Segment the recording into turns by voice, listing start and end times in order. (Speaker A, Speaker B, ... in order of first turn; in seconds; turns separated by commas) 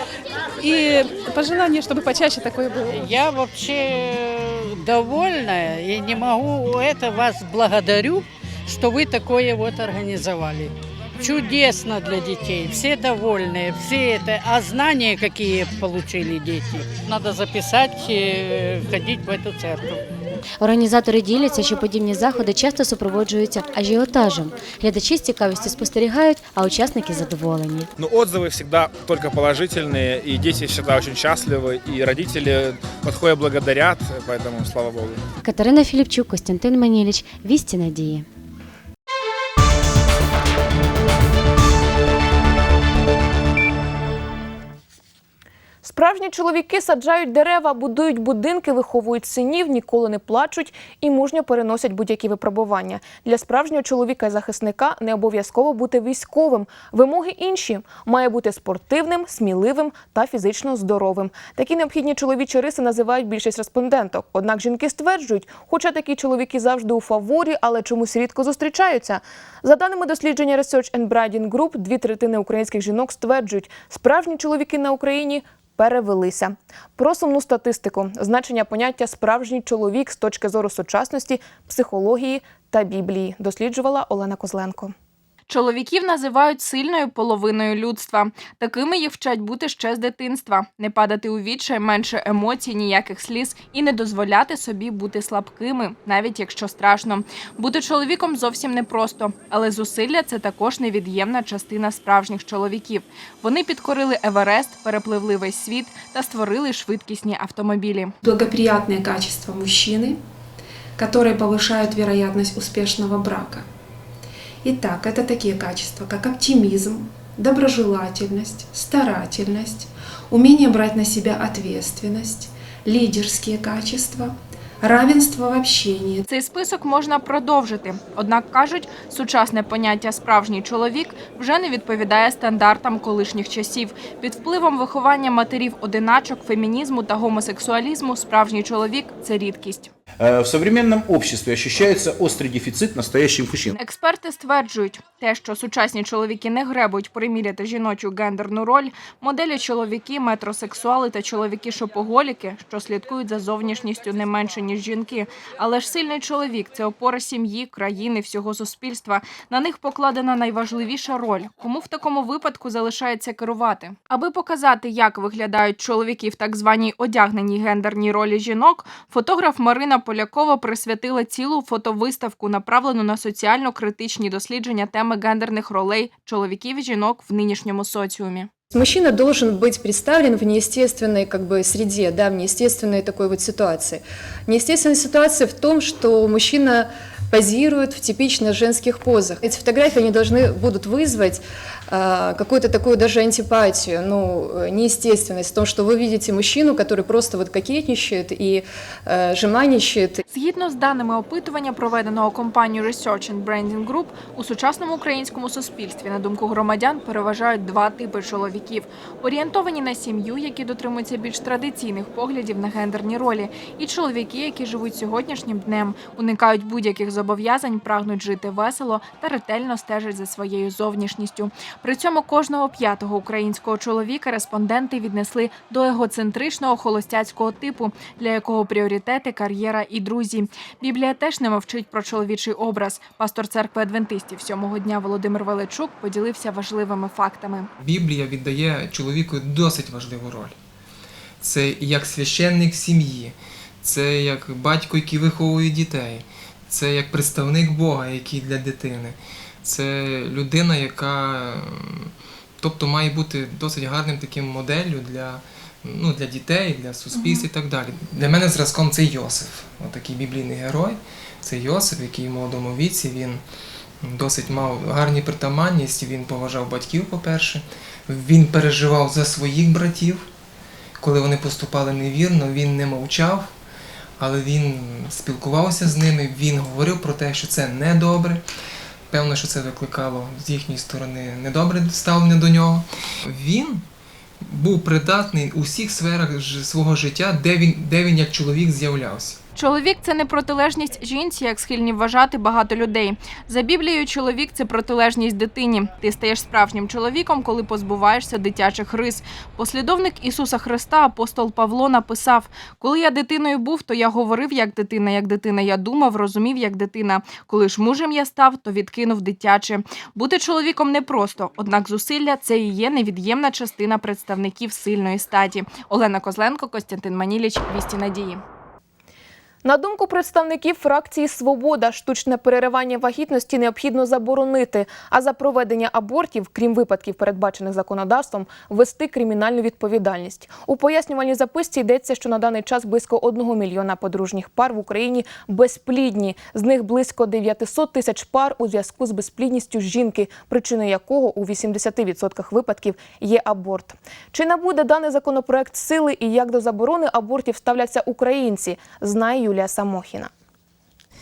Speaker A: 0.6-3.1, Speaker B: 2.9-20.0, Speaker C: 20.6-27.9, Speaker D: 28.0-35.2, Speaker C: 35.4-38.2, Speaker E: 45.8-84.9, Speaker F: 85.5-108.1, Speaker G: 108.2-110.2, Speaker G: 111.0-113.7, Speaker G: 114.6-126.2, Speaker F: 126.3-139.9, Speaker H: 140.2-143.8, Speaker F: 143.8-178.5, Speaker I: 178.7-191.4, Speaker I: 191.9-200.2, Speaker F: 200.3-237.7, Speaker J: 237.8-240.6, Speaker J: 241.4-263.4, Speaker J: 264.0-270.2, Speaker J: 271.0-273.5, Speaker J: 274.2-278.4, Speaker J: 279.1-283.8, Speaker J: 284.4-289.4, Speaker F: 289.6-318.4, Speaker E: 319.6-350.3